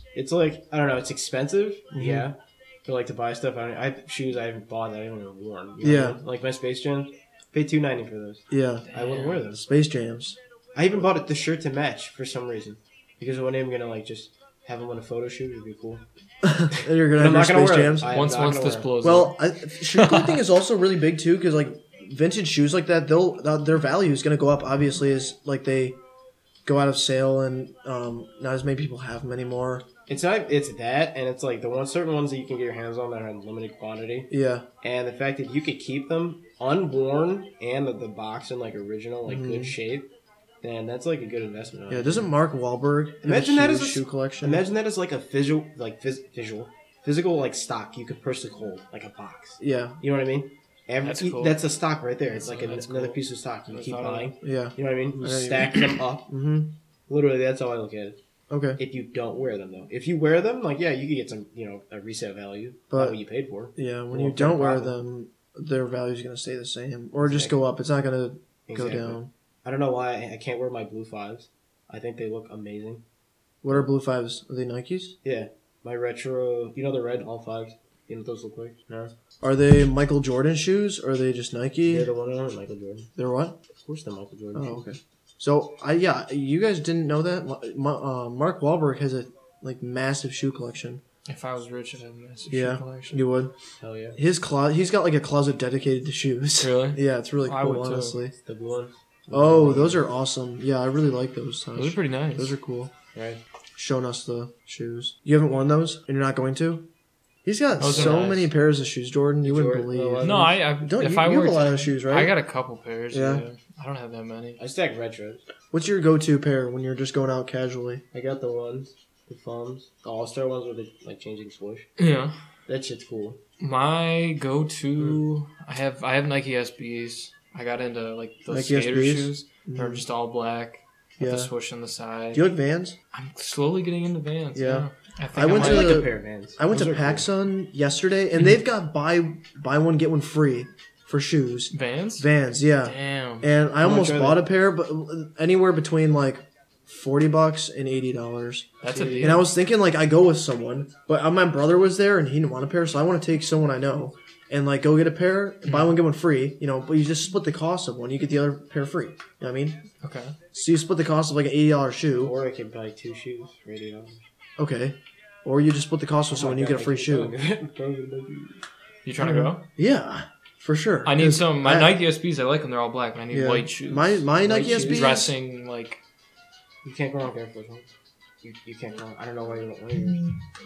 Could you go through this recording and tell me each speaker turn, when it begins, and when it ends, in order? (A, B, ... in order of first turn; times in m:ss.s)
0:00.1-0:09.6 A
0:01.9-0:02.3 B
0:05.8-0:06.2 B
0:08.5-0:08.9 B
0:08.9-0:09.4 C
0:09.5-0:10.4 B
0:10.7-0:16.0 A
0:16.4-0:18.1 B
0:16.7-0:19.0 A
0:18.1-0:20.4 C
0:19.0-0:26.0 B
0:26.6-0:29.8 B
0:30.1-0:34.3 A
0:34.3-0:34.6 B
0:34.8-0:40.1 A
0:39.2-0:39.7 B
0:40.6-0:42.3 A
0:41.9-0:44.6 B
0:43.2-0:56.3 A
0:49.6-0:50.0 B
0:51.0-0:51.6 C
0:52.3-0:54.3 C
0:54.4-0:56.7 B
0:57.1-0:58.2 A
0:58.5-0:58.8 B
0:58.8-1:05.0 A
1:02.9-1:03.2 B
1:03.8-1:09.3 B
1:07.2-1:07.6 A
1:08.7-1:13.0 A
1:13.6-1:15.1 B
1:15.2-1:19.1 A
1:19.4-1:22.1 B
1:21.8-1:23.1 A
1:23.2-1:23.5 B
1:23.8-1:24.8 A
1:24.5-1:31.0 B
1:31.2-1:33.3 C
1:32.5-1:33.5 B
1:33.8-1:34.2 A
1:34.2-1:38.3 B
1:36.6-1:38.2 C
1:38.4-1:40.0 A
1:39.3-1:42.9 B
1:41.8-1:42.5 C
1:43.1-1:43.4 A
1:43.8-1:46.8 B
1:47.4-1:52.3 B
1:47.8-1:48.5 C
1:47.9-1:48.3 A
1:49.4-1:50.5 A
1:50.2-1:54.6 C
1:53.1-1:53.4 B
1:54.6-1:55.4 A
1:55.7-1:58.0 B
1:58.1-2:01.9 A
2:02.0-2:02.3 C
2:02.7-2:03.4 A
2:03.6-2:12.5 C
2:08.5-2:10.0 B
2:11.2-2:11.5 B
2:12.3-2:13.0 B
2:13.1-2:16.0 C
2:14.5-2:28.7 B
2:15.4-2:17.3 A
2:21.7-2:22.3 C
2:22.8-2:23.5 C
2:23.8-2:24.4 A
2:28.8-2:29.5 C
2:28.9-2:29.4 A
2:29.2-2:39.8 B
2:35.7-2:35.9 C
2:40.0-2:40.3 C
2:40.5-2:42.3 B
2:42.2-2:44.2 A
2:44.6-2:47.3 B
2:46.3-2:48.6 A
2:49.0-2:49.6 C
2:49.2-2:51.9 B
2:51.0-2:56.0 C
2:53.3-2:55.3 B
2:54.4-2:55.1 A
2:56.8-2:57.9 A
2:58.4-3:00.3 A